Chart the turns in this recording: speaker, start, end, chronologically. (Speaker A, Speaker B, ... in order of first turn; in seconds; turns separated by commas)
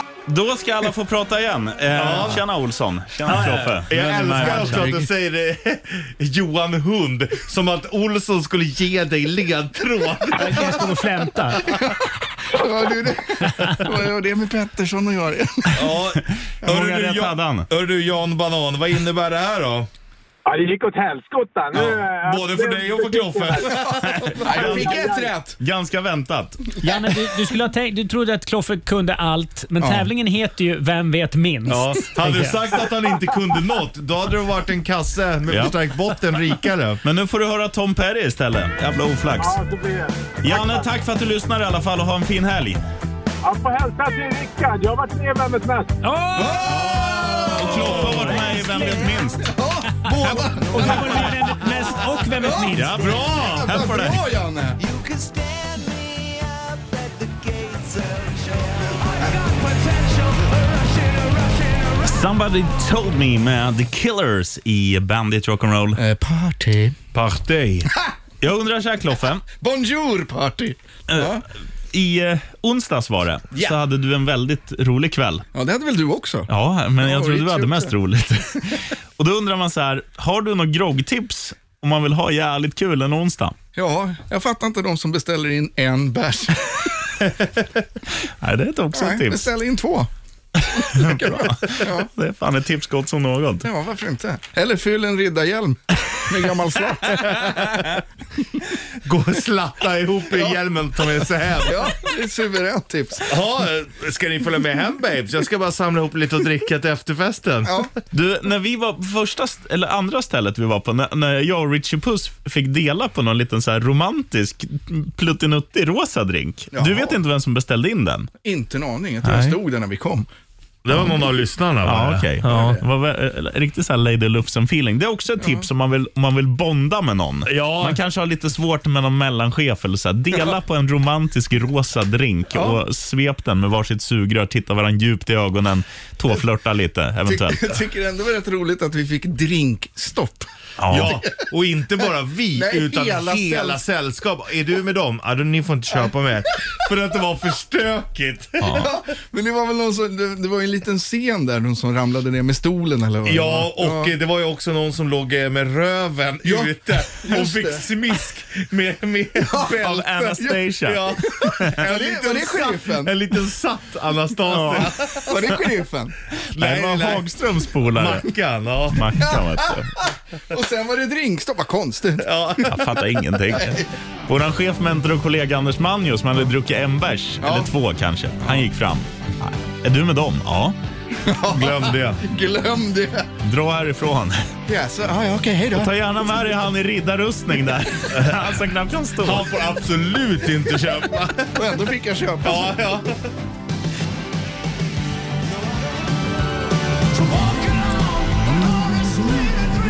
Speaker A: 0.3-3.9, Speaker B: 1.9-2.5, Speaker C: 3.3-4.9, Speaker B: 3.9-10.9, Speaker D: 4.4-5.1, Speaker C: 10.3-11.8, Speaker D: 11.7-12.0, Speaker D: 12.5-15.8, Speaker C: 13.4-13.9, Speaker B: 15.7-19.9, Speaker A: 16.6-17.7, Speaker E: 20.5-23.8, Speaker B: 21.7-25.0, Speaker A: 24.1-25.0, Speaker D: 24.4-25.6, Speaker E: 24.6-25.3, Speaker A: 25.6-26.8, Speaker C: 26.8-32.9, Speaker D: 29.8-30.1, Speaker B: 31.7-37.0, Speaker A: 35.5-35.7, Speaker A: 37.0-39.6, Speaker E: 39.4-40.3, Speaker A: 40.4-42.8, Speaker E: 43.4-46.0, Speaker C: 46.0-47.0, Speaker D: 46.4-51.4, Speaker B: 46.6-48.5, Speaker A: 47.5-49.5, Speaker C: 50.1-53.1, Speaker D: 52.4-54.8, Speaker A: 52.7-54.2, Speaker B: 53.0-53.8, Speaker F: 54.8-62.1, Speaker A: 62.0-66.0, Speaker D: 66.0-67.0, Speaker B: 67.1-67.9, Speaker A: 68.4-69.5, Speaker D: 69.6-71.4, Speaker A: 71.1-75.5, Speaker D: 75.5-76.5, Speaker A: 76.5-83.5, Speaker D: 77.0-77.9, Speaker D: 83.8-86.9, Speaker A: 88.4-89.5, Speaker D: 88.9-90.1, Speaker A: 90.7-93.7, Speaker D: 90.8-92.1, Speaker D: 93.6-98.0, Speaker B: 99.0-102.0, Speaker D: 101.6-103.3, Speaker B: 103.3-107.9, Speaker D: 107.7-107.9, Speaker A: 108.1-118.3, Speaker D: 116.7-117.2, Speaker D: 118.4-120.3, Speaker A: 119.2-119.6, Speaker B: 120.8-122.8, Speaker A: 121.8-137.8, Speaker D: 122.5-122.8, Speaker D: 125.4-125.7, Speaker B: 127.5-128.0, Speaker D: 132.5-132.8, Speaker D: 137.3-141.2, Speaker A: 140.8-141.2, Speaker B: 140.9-148.9, Speaker D: 142.5-143.8, Speaker A: 148.6-148.9, Speaker D: 148.7-154.1, Speaker B: 153.3-165.5, Speaker D: 156.4-157.9, Speaker D: 159.4-163.1, Speaker A: 159.7-161.0, Speaker A: 164.5-165.0, Speaker D: 165.2-166.1, Speaker B: 166.5-167.3, Speaker A: 166.6-168.3, Speaker B: 167.8-169.2, Speaker A: 168.9-169.9, Speaker D: 170.0-172.7, Speaker B: 172.2-172.8, Speaker A: 172.7-180.8, Speaker D: 177.4-177.7, Speaker D: 181.2-183.3, Speaker B: 181.4-182.2, Speaker A: 183.4-184.4, Speaker D: 184.7-185.9, Speaker A: 185.8-189.5, Speaker B: 188.1-188.4, Speaker B: 189.2-191.7, Speaker D: 191.5-192.8, Speaker B: 192.4-193.2, Speaker F: 197.2-199.5